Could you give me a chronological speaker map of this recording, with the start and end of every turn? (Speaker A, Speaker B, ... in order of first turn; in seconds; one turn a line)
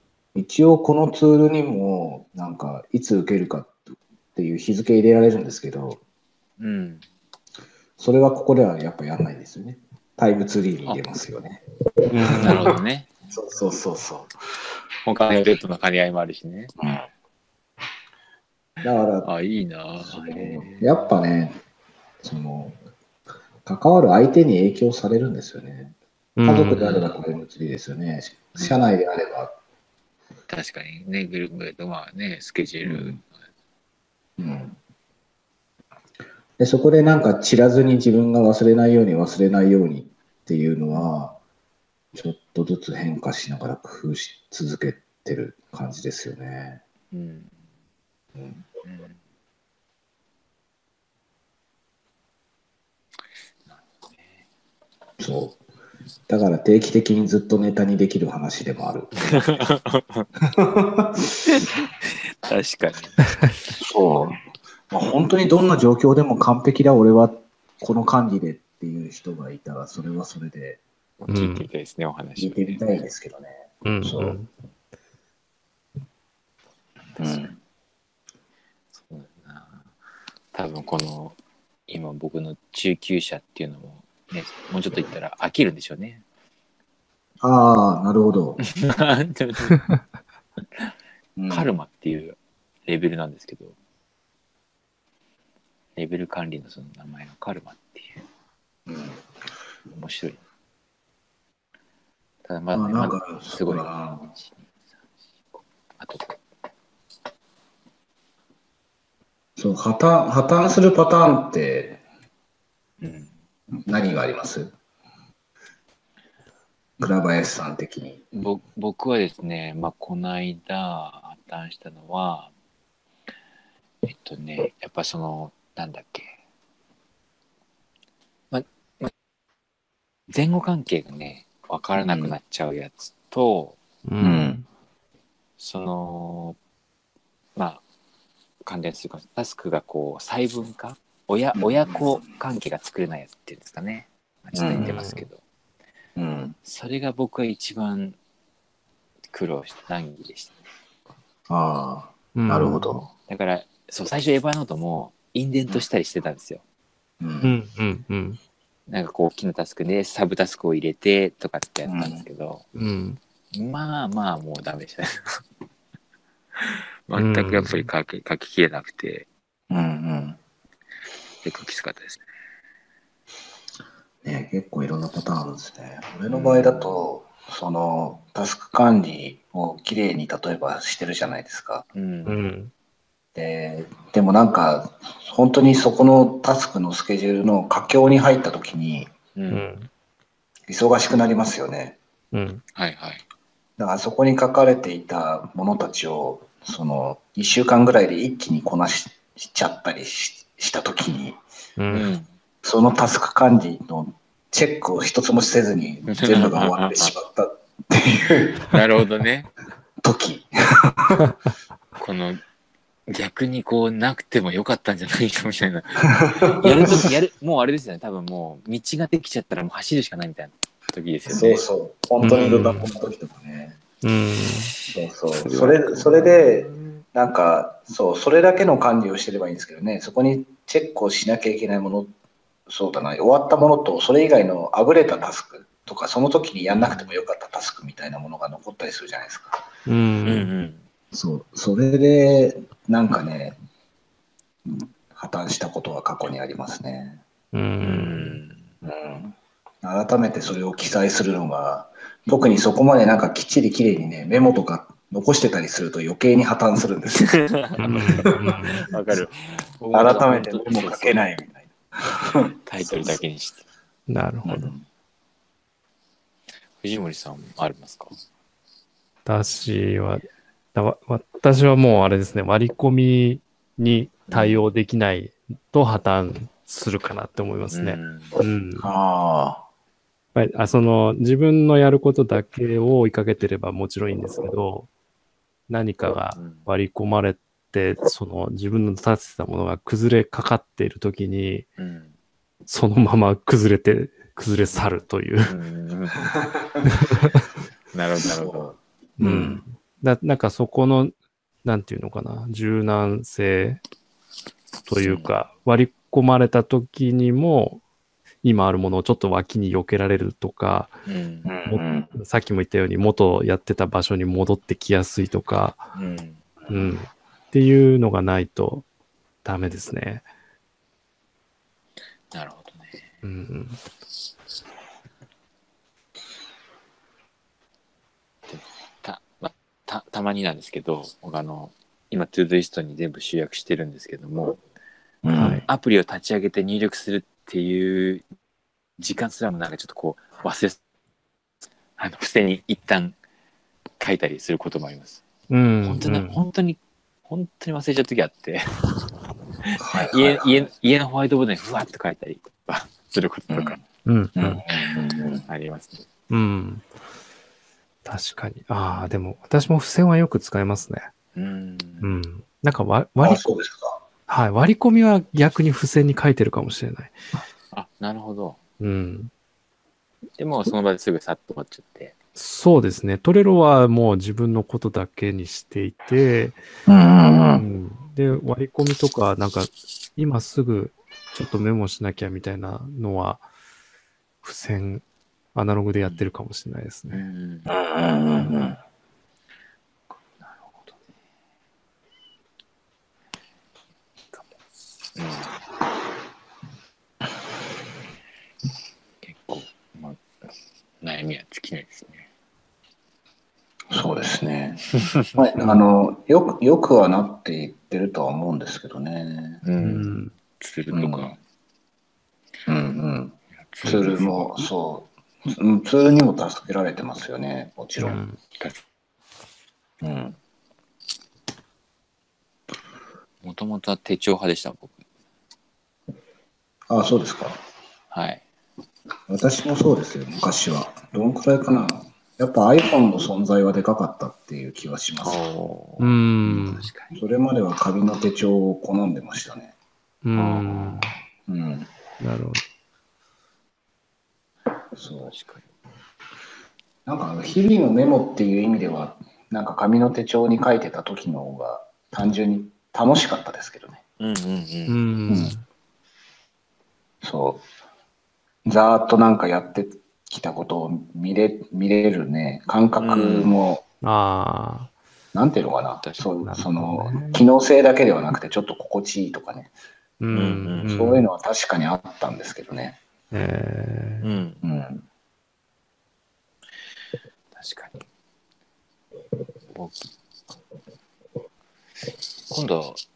Speaker A: 0.3-3.8
Speaker A: 4.3-6.0
Speaker B: 6.6-7.0
Speaker A: 8.0-11.6
Speaker C: 12.1-12.7
Speaker A: 12.2-12.7
Speaker B: 12.4-13.1
Speaker A: 13.3-14.3
Speaker B: 15.0-16.7
Speaker A: 16.8-17.1
Speaker A: 18.8-19.3
Speaker B: 19.2-21.0
Speaker A: 20.0-21.6
Speaker A: 22.2-22.8
Speaker A: 23.6-29.5
Speaker C: 26.4-26.8
Speaker B: 26.7-27.1
Speaker B: 30.5-33.3
Speaker A: 32.8-33.2
Speaker A: 34.4-34.8
Speaker A: 36.6-41.3
Speaker A: 42.1-46.8
Speaker B: 47.1-47.5
Speaker A: 48.4-48.6
Speaker B: 48.8-49.2
Speaker B: 53.7-54.3
Speaker A: 55.2-55.6
Speaker A: 56.3-59.6
Speaker B: 59.1-60.3
Speaker A: 60.4-61.4
Speaker B: 61.4-63.2
Speaker A: 63.8-64.4
Speaker A: 64.9-70.8
Speaker B: 71.2-73.0
Speaker C: 71.3-71.7
Speaker A: 72.4-74.4
Speaker C: 73.8-74.5
Speaker B: 77.2-77.5
Speaker A: 77.2-77.6
Speaker B: 79.0-79.9
Speaker B: 80.5-81.4
Speaker B: 81.9-86.2
Speaker A: 87.4-88.6
Speaker B: 88.6-89.8
Speaker A: 91.3-91.7
Speaker B: 91.5-93.7
Speaker B: 96.0-98.2
Speaker A: 98.9-99.2
Speaker B: 99.9-100.4
Speaker B: 102.4-104.7
Speaker A: 102.7-104.3
Speaker B: 106.0-106.4
Speaker A: 109.6-112.0
Speaker B: 113.0-113.3
Speaker A: 113.7-114.7
Speaker A: 117.0-118.2
Speaker B: 118.3-122.5
Speaker B: 124.0-126.4
Speaker B: 128.5-129.1
Speaker B: 130.3-133.8
Speaker A: 131.9-132.4
Speaker C: 134.0-134.6
Speaker A: 134.2-134.6
Speaker B: 135.6-136.6
Speaker B: 137.6-137.8
Speaker B: 138.7-145.4
Speaker A: 141.6-142.2
Speaker A: 144.5-144.9
Speaker C: 144.7-145.2
Speaker A: 146.2-146.6
Speaker B: 146.6-148.2
Speaker B: 149.3-150.6
Speaker A: 151.5-153.1
Speaker C: 152.3-153.0
Speaker B: 153.3-156.6
Speaker A: 157.2-157.5
Speaker C: 157.4-158.4
Speaker B: 158.9-162.6
Speaker A: 161.8-162.2
Speaker C: 162.7-163.2
Speaker B: 163.5-165.4
Speaker B: 166.6-169.3
Speaker C: 167.1-167.8
Speaker A: 169.7-170.4
Speaker B: 171.4-172.2
Speaker A: 174.2-181.8
Speaker B: 176.3-177.0
Speaker B: 181.9-182.4
Speaker C: 182.2-182.7
Speaker A: 183.3-189.1
Speaker B: 189.3-189.7
Speaker C: 189.5-189.9
Speaker A: 190.7-192.0
Speaker C: 192.3-192.6
Speaker B: 192.7-193.2
Speaker A: 193.8-201.4
Speaker C: 201.8-202.1
Speaker B: 201.9-202.3
Speaker A: 202.6-208.7
Speaker B: 206.1-207.1
Speaker B: 208.7-209.5
Speaker A: 210.0-211.2
Speaker B: 212.0-212.4
Speaker B: 213.1-221.6
Speaker A: 216.0-217.1
Speaker A: 221.3-223.8
Speaker C: 222.2-222.9
Speaker B: 222.3-222.6
Speaker C: 224.0-224.7
Speaker B: 224.8-226.9
Speaker A: 224.9-232.1
Speaker A: 232.7-239.6
Speaker B: 236.8-237.1
Speaker C: 239.9-240.5
Speaker B: 240.2-240.8
Speaker A: 241.1-243.6
Speaker A: 244.7-247.2
Speaker C: 247.5-248.4
Speaker B: 247.8-248.7
Speaker A: 248.8-257.3
Speaker B: 257.1-261.2
Speaker C: 257.8-258.8
Speaker A: 258.0-258.6
Speaker A: 259.9-263.2
Speaker B: 262.4-263.6
Speaker C: 264.1-264.7
Speaker A: 264.4-264.8
Speaker B: 266.8-268.1
Speaker C: 269.2-270.2
Speaker C: 270.7-278.9
Speaker B: 274.3-274.6
Speaker B: 277.7-278.4
Speaker A: 278.8-279.6
Speaker C: 280.3-284.9
Speaker C: 285.7-291.7
Speaker B: 286.3-286.7
Speaker B: 291.8-292.1
Speaker C: 292.7-295.5
Speaker B: 294.6-296.3
Speaker C: 296.9-297.4
Speaker B: 297.9-298.7
Speaker A: 298.4-299.6
Speaker C: 299.2-303.8
Speaker C: 304.9-307.8
Speaker B: 305.0-305.3
Speaker C: 308.4-310.9
Speaker B: 311.0-311.5
Speaker A: 311.4-312.2
Speaker C: 311.7-315.9
Speaker B: 315.9-316.4
Speaker A: 316.7-316.9
Speaker C: 316.7-318.9
Speaker C: 319.4-320.2
Speaker B: 322.3-323.1
Speaker C: 323.2-323.8
Speaker B: 328.5-334.6
Speaker A: 335.2-335.6
Speaker C: 335.3-335.6
Speaker B: 335.6-338.2
Speaker B: 339.0-340.8
Speaker B: 342.0-343.2
Speaker B: 344.0-345.2
Speaker C: 345.5-346.4
Speaker B: 345.8-348.8
Speaker B: 349.6-353.8
Speaker A: 349.8-350.6
Speaker A: 353.5-353.8
Speaker C: 354.0-354.6
Speaker A: 354.4-355.4
Speaker B: 355.5-356.1
Speaker C: 356.3-356.9
Speaker C: 358.0-361.1
Speaker B: 361.4-362.1
Speaker C: 362.0-363.5
Speaker A: 363.2-364.0
Speaker C: 364.3-367.1
Speaker B: 367.7-368.6
Speaker C: 368.8-369.3
Speaker B: 370.4-372.1
Speaker C: 372.4-376.6
Speaker A: 376.9-377.6
Speaker C: 377.6-383.4
Speaker C: 384.4-387.2
Speaker B: 386.0-386.3
Speaker B: 387.1-387.7
Speaker A: 387.6-388.8
Speaker B: 390.4-391.0
Speaker B: 395.1-395.6
Speaker B: 399.2-400.2
Speaker B: 401.0-402.2
Speaker A: 403.9-409.6
Speaker B: 405.0-405.7
Speaker B: 409.6-410.1
Speaker C: 409.8-410.3
Speaker B: 410.6-411.4
Speaker A: 410.9-411.3
Speaker A: 412.7-418.2
Speaker B: 413.6-414.4
Speaker C: 418.0-418.4
Speaker A: 420.0-420.4
Speaker B: 423.4-425.0
Speaker A: 426.9-427.6
Speaker B: 428.1-428.4
Speaker A: 429.3-435.4
Speaker B: 435.2-437.2
Speaker C: 436.0-436.9
Speaker A: 437.1-439.7
Speaker C: 440.2-441.1
Speaker B: 440.4-441.2
Speaker A: 441.5-441.9
Speaker C: 442.2-442.6
Speaker A: 444.9-445.3
Speaker B: 445.2-445.7
Speaker A: 447.1-454.0
Speaker B: 454.2-455.0
Speaker C: 454.9-455.6
Speaker A: 455.3-455.5
Speaker A: 457.2-457.6
Speaker A: 458.6-463.8
Speaker B: 463.0-463.5
Speaker C: 464.0-464.9
Speaker A: 465.3-469.7
Speaker B: 466.0-466.2
Speaker C: 466.4-467.4
Speaker C: 470.2-471.3
Speaker B: 470.3-470.9
Speaker A: 470.8-473.0
Speaker C: 473.3-474.2
Speaker B: 474.2-474.6
Speaker A: 474.6-475.0
Speaker B: 477.5-478.0
Speaker B: 479.7-480.1
Speaker B: 482.5-483.0